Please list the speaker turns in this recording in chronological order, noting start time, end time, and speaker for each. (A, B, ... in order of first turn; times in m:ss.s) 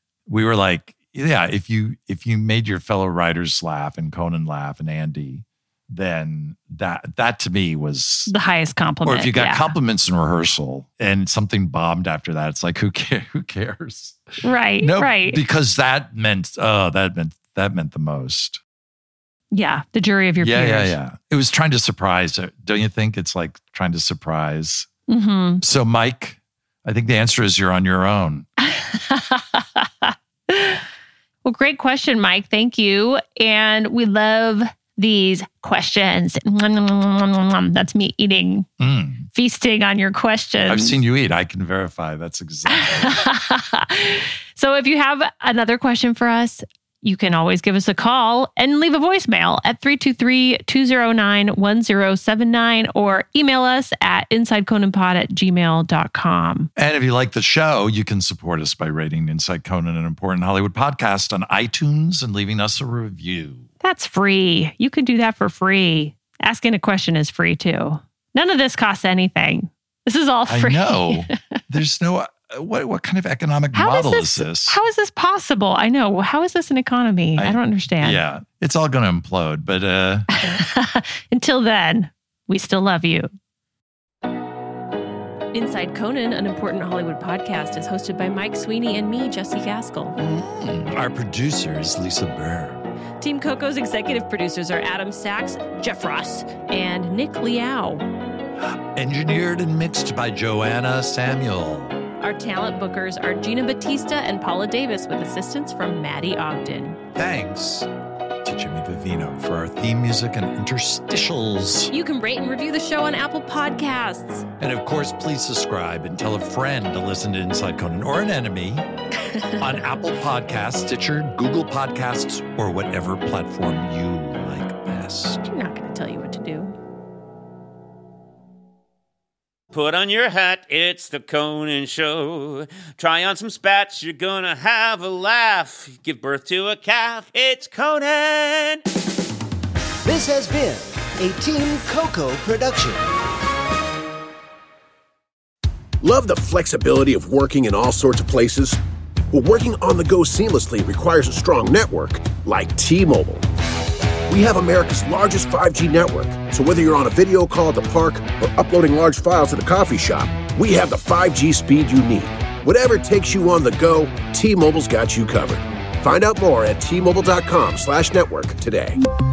0:00.3-0:08.3 A
0:08.3-0:09.7 B
0:09.0-0:18.6 A
0:14.4-0:15.4 B
0:19.5-0:21.0 B
0:20.4-0:24.9 A
0:25.1-0:25.6 B
0:25.6-0:28.5 A
0:28.7-0:30.8 B
0:31.4-0:38.7 B
0:38.8-0:39.3 A
0:39.3-0:41.0 B
0:40.6-0:43.3 A
0:42.7-0:56.7 B
0:56.8-1:03.7 A
1:03.8-1:11.4 B
1:10.5-1:14.8 A
1:13.7-1:18.2 B
1:17.4-1:20.3 A
1:20.4-1:23.3 B
1:25.5-1:30.2 B
1:30.2-1:32.8 A
1:33.2-1:38.1 B
1:38.7-1:42.0 A
1:42.2-1:47.0 B
1:47.2-1:47.9 A
1:48.4-1:51.9 A
1:51.9-1:54.5 B
1:54.6-1:58.9 A
1:59.6-2:05.5 A
2:05.5-2:06.8 B
2:09.7-2:18.8 C
2:20.0-2:23.0 D
2:26.0-2:28.8 E
2:29.3-2:33.5 E
2:34.3-2:49.0 E